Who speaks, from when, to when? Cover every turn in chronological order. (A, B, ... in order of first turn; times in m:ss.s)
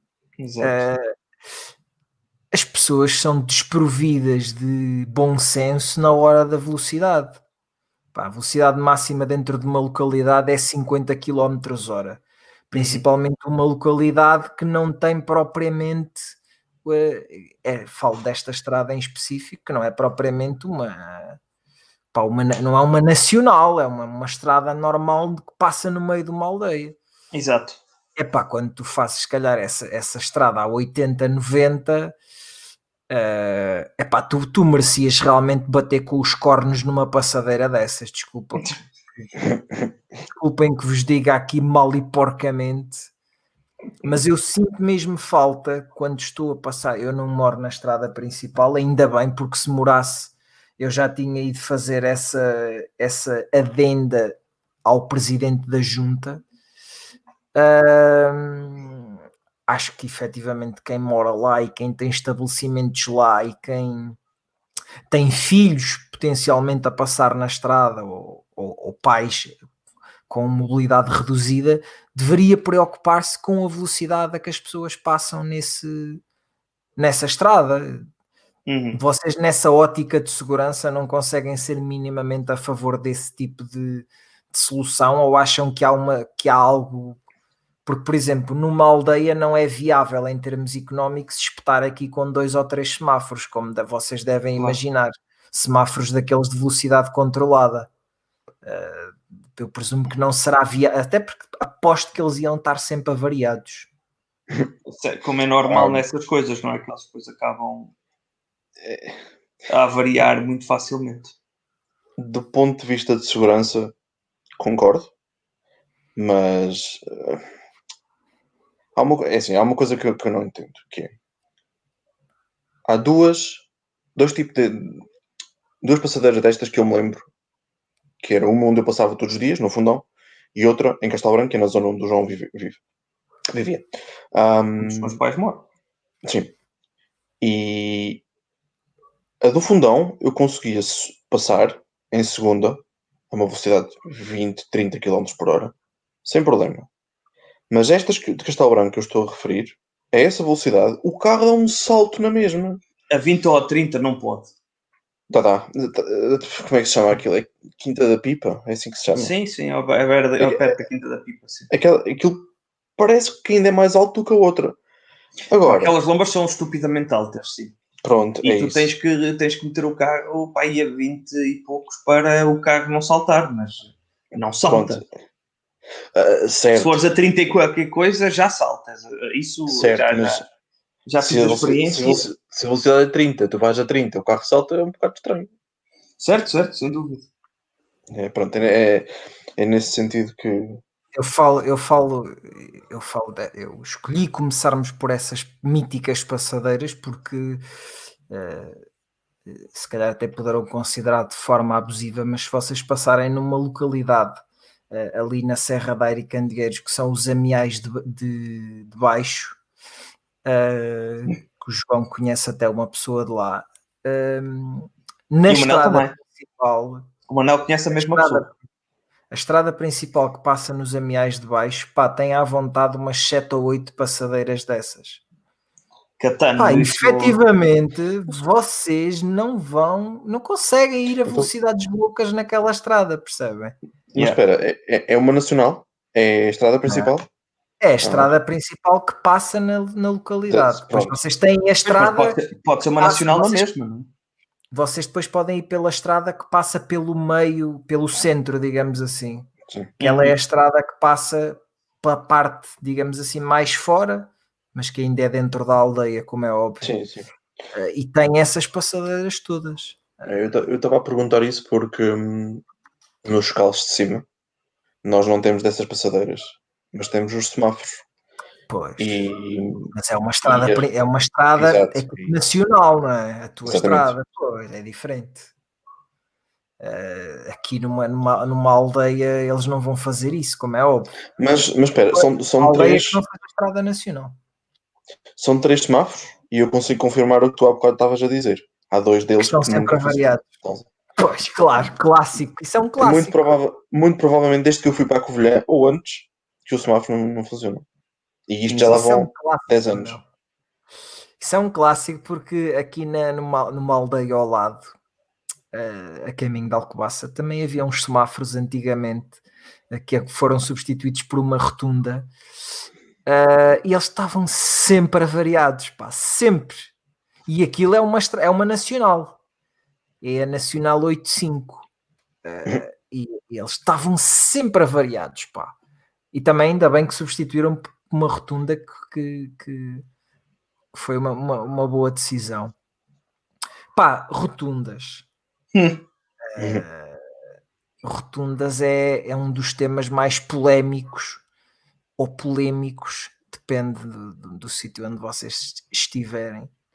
0:00.4-0:00.9 A
0:00.6-0:01.1 B
0:02.5-0:07.4 B
0:08.1-0:21.4 B
0:12.7-0:13.0 A
0:22.1-0:27.0 B
0:27.3-0:27.8 A
0:28.2-0:32.2 B
0:33.1-0:38.8 B
0:40.3-0:43.1 B
0:44.0-0:56.4 B
0:57.6-0:59.2 B
0:59.7-1:04.2 B
1:05.1-1:09.6 B
1:10.3-1:16.2 B
1:17.0-1:18.1 B
1:18.7-1:19.0 A
1:19.0-1:27.2 B
1:27.8-1:37.9 B
1:38.6-1:43.9 B
1:44.9-1:47.9 A
1:45.7-1:46.0 C
1:48.8-1:49.2 C
1:49.7-1:51.3 A
1:52.2-1:53.9 C
1:54.6-1:55.1 C
1:56.2-1:57.4 C
1:59.0-2:01.1 C
2:02.9-2:03.6 C
2:04.2-2:05.0 C
2:05.8-2:07.3 C
2:08.2-2:12.8 C
2:13.5-2:15.2 C
2:14.8-2:15.6 A
2:16.2-2:16.5 C
2:17.4-2:18.2 C
2:19.4-2:25.7 C
2:26.2-2:26.9 C
2:27.7-2:32.8 C
2:33.1-2:34.5 A
2:35.3-2:39.3 C
2:39.1-2:41.7 A
2:40.4-2:40.7 C
2:41.7-2:44.8 C
2:45.5-2:46.0 C
2:45.7-2:47.8 A
2:48.0-2:48.9 C
2:48.4-2:55.0 A
2:54.6-2:55.1 C
2:56.1-2:57.0 C
2:56.8-3:00.5 A
2:59.7-3:00.4 C
3:01.1-3:02.2 A
3:01.2-3:05.5 C
3:06.2-3:07.3 A
3:08.1-3:10.8 C
3:11.2-3:17.6 B
3:18.3-3:18.8 B
3:19.5-3:29.6 B
3:30.4-3:37.1 B
3:35.5-3:36.1 A
3:37.3-3:38.5 A
3:37.9-3:38.6 B
3:39.3-3:45.2 B
3:46.2-3:47.4 A
3:46.6-3:53.8 B
3:54.1-3:57.3 C
3:57.8-4:02.5 B
3:58.0-3:58.3 C
4:00.5-4:01.2 C
4:01.9-4:04.1 A
4:03.0-4:03.6 B
4:04.7-4:16.9 B
4:09.7-4:09.9 C
4:10.0-4:10.4 A
4:16.8-4:17.3 C
4:17.7-4:20.3 B
4:20.3-4:22.6 C
4:23.2-4:24.2 C
4:25.0-4:28.0 C
4:28.7-4:29.3 B
4:29.0-4:29.9 C
4:29.9-4:35.5 B
4:30.4-4:30.9 C
4:31.6-4:32.3 C
4:33.6-4:34.1 C
4:36.8-4:41.2 B
4:41.4-4:43.2 C
4:42.1-4:44.4 B
4:45.4-4:50.9 C
4:49.4-4:50.4 B
4:51.2-4:53.5 B
4:53.0-4:57.8 C
4:58.5-5:00.1 C
4:58.7-5:00.2 B
5:01.4-5:04.9 B
5:05.7-5:09.4 B
5:09.9-5:12.3 B
5:13.3-5:16.9 B
5:17.5-5:19.4 B
5:20.2-5:21.9 B
5:22.4-5:25.7 B
5:26.3-5:30.0 B
5:30.9-5:32.7 B
5:34.0-5:35.3 B
5:35.7-5:36.0 A
5:36.5-5:37.2 B
5:36.6-5:36.8 C
5:38.0-5:41.4 B
5:42.2-5:46.7 B